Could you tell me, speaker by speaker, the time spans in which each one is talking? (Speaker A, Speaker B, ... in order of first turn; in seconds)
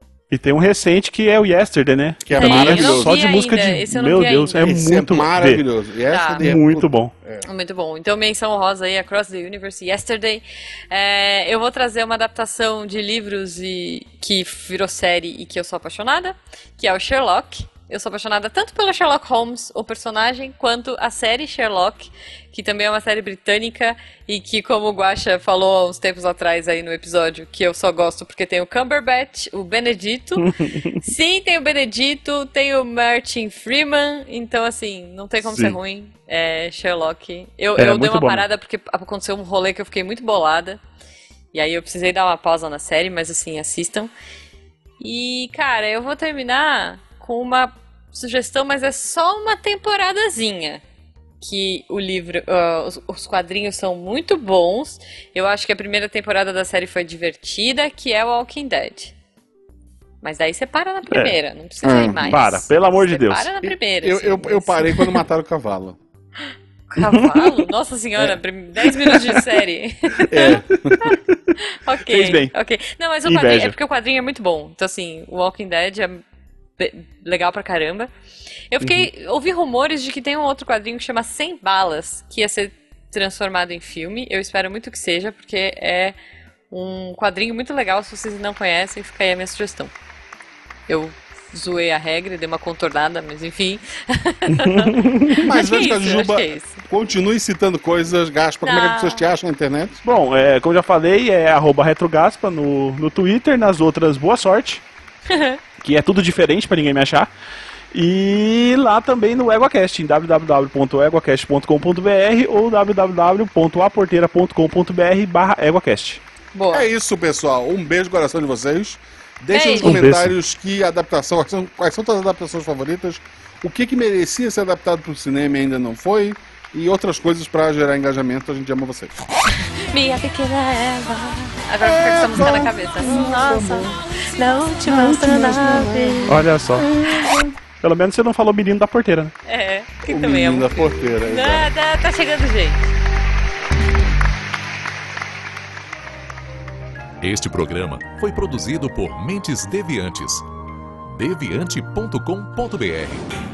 Speaker A: 0.3-5.6, 6.4-7.1, 30.4-30.9, 35.4-35.8, 37.8-38.4, 61.1-61.4, 62.2-63.5, 67.1-67.5, 68.8-69.4, 70.8-71.4, 72.0-72.5, 73.2-73.8, 78.8-79.1, 94.5-95.4, 100.0-104.8, 105.8-107.3, 107.9-116.2, 119.8-120.3, 136.3-136.9, 137.8-139.3
Speaker B: 2.2-3.1, 4.6-7.4, 61.8-62.4, 63.6-66.0, 70.3-71.1, 95.4-100.0, 116.7-129.2, 131.8-134.0, 134.8-136.4, 137.1-137.4, 140.1-141.7
Speaker C: 2.3-4.7, 6.1-6.4, 7.4-40.8, 41.5-44.1, 45.0-50.8, 51.4-59.1, 60.2-65.1, 66.9-76.2, 76.8-78.1, 78.7-86.2, 86.7-89.9, 90.9-96.8, 98.6-99.3, 105.3-105.6, 116.5-116.9, 119.5-120.0, 129.7-137.5, 139.4-142.8
Speaker D: 147.2-150.4, 151.1-153.3